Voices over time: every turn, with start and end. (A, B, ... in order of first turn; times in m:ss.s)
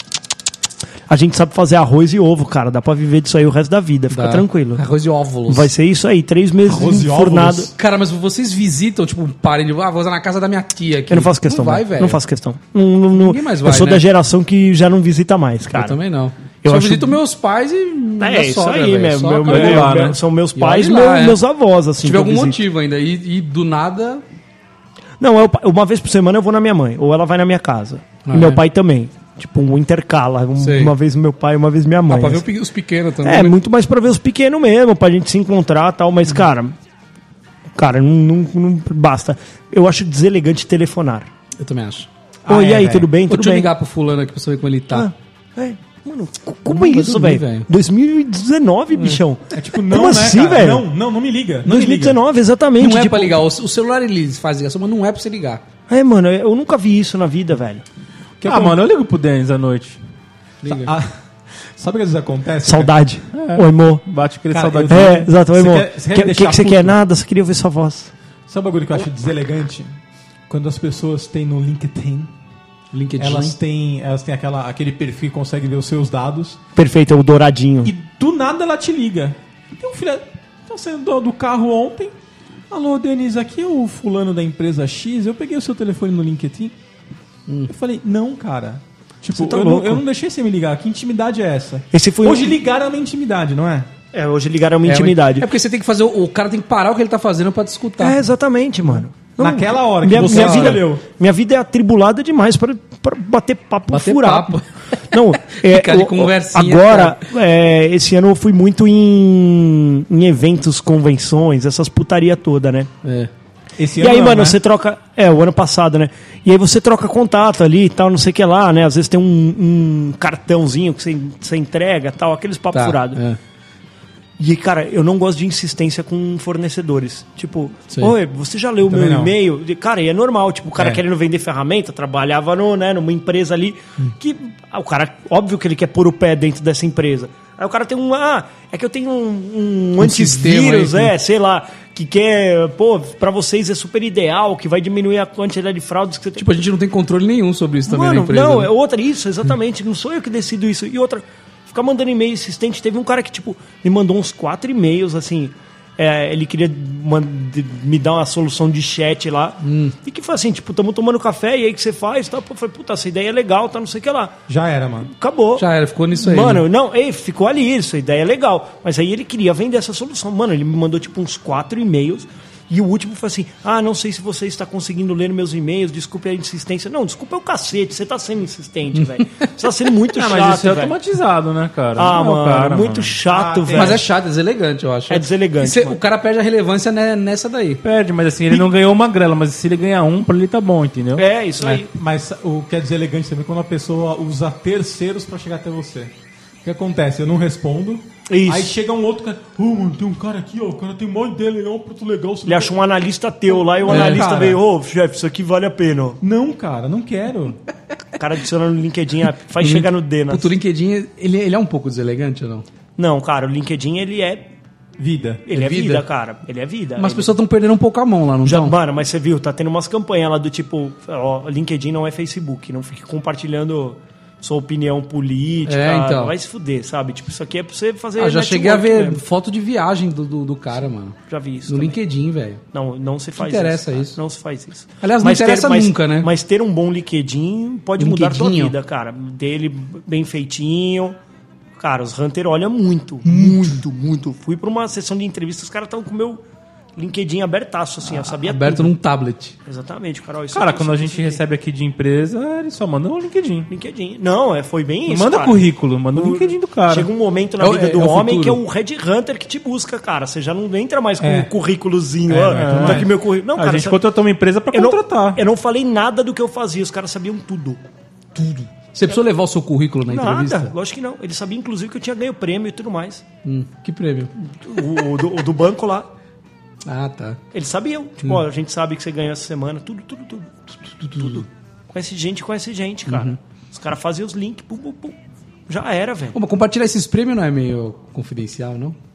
0:01.1-0:04.8 A
0:04.1-0:05.7 B
0:05.5-0:07.7 A
0:06.6-0:07.7 C
0:07.7-0:12.2 B
0:11.1-0:16.0 A
0:13.2-0:14.0 B
0:15.8-0:19.9 B
0:16.6-0:17.2 A
0:18.2-0:22.6 A
0:19.5-0:20.2 D
0:20.6-0:21.4 B
0:22.0-0:24.2 B
0:25.2-0:32.4 A
0:28.3-0:28.6 B
0:30.6-0:30.9 B
0:32.1-0:33.6 B
0:33.2-0:36.8 A
0:37.8-0:41.3 A
0:41.6-0:42.1 B
0:42.4-0:43.1 C
0:42.5-0:43.7 A
0:43.3-0:45.1 B
0:44.9-0:50.8 A
0:46.7-0:47.7 B
0:49.5-0:52.2 C
0:51.7-0:53.4 A
0:52.8-0:55.6 B
0:55.9-0:57.8 A
0:58.4-0:58.8 C
0:58.5-1:00.0 D
1:00.6-1:00.9 B
1:00.6-1:01.2 C
1:01.8-1:02.9 C
1:02.6-1:04.0 A
1:03.3-1:05.2 D
1:04.5-1:07.0 C
1:04.9-1:08.1 A
1:08.5-1:10.0 C
1:10.5-1:12.3 C
1:12.9-1:13.6 B
1:13.2-1:16.6 C
1:16.8-1:17.9 A
1:17.8-1:22.2 C
1:22.7-1:26.7 C
1:27.5-1:27.7 B
1:27.7-1:33.9 C
1:29.3-1:30.0 A
1:31.9-1:32.6 A
1:34.1-1:35.5 A
1:34.9-1:38.2 B
1:38.0-1:44.6 A
1:39.4-1:41.0 C
1:43.9-1:44.6 B
1:45.1-1:52.9 A
1:45.5-1:47.2 B
1:53.0-1:53.3 B
1:53.8-1:54.6 C
1:54.0-2:03.2 A
2:02.7-2:03.4 B
2:04.4-2:26.5 A
2:08.9-2:09.3 C
2:20.0-2:21.1 B
2:26.4-2:28.7 B
2:27.9-2:44.4 A
2:39.6-2:39.9 B
2:44.5-2:45.1 C
2:45.0-3:01.0 A
2:45.6-2:46.6 B
2:59.0-2:59.5 B
3:00.1-3:03.1 D
3:02.0-3:04.1 A
3:03.3-3:04.0 C
3:03.8-3:07.8 B
3:05.1-3:06.0 A
3:07.8-3:11.2 D
3:11.2-3:11.9 A
3:11.7-3:16.1 C
3:16.6-3:22.8 C
3:18.3-3:18.7 A
3:22.5-3:26.2 A
3:23.6-3:24.6 C
3:23.9-3:24.3 B
3:26.2-3:27.6 C
3:28.2-3:30.5 A
3:29.6-3:32.7 B
3:33.0-3:34.5 A
3:35.0-3:35.4 C
3:35.5-3:37.3 A
3:35.5-3:36.1 B
3:37.0-3:38.8 B
3:38.4-3:49.2 A
3:45.7-3:46.3 B
3:48.2-3:51.2 B
3:51.3-3:52.0 A
3:51.7-3:52.6 B
3:52.7-4:01.2 A
3:53.4-3:54.2 B
3:55.0-3:56.3 B
3:58.0-3:58.8 B
4:01.8-4:06.4 A
4:03.3-4:03.8 B
4:07.0-4:08.9 A
4:08.1-4:09.5 B
4:09.7-4:11.4 A
4:10.5-4:13.7 D
4:13.7-4:24.0 A
4:15.1-4:17.1 D
4:17.6-4:18.6 B
4:21.2-4:21.5 C
4:22.3-4:23.1 C
4:23.5-4:25.4 D
4:24.7-4:28.6 A
4:28.9-4:30.7 B
4:30.1-4:33.2 A
4:33.4-4:34.3 B
4:34.6-4:36.1 A
4:36.9-4:37.4 B
4:37.5-4:45.2 A
4:41.1-4:41.4 B
4:43.1-4:43.4 B
4:45.7-4:46.4 A
4:46.3-4:49.0 B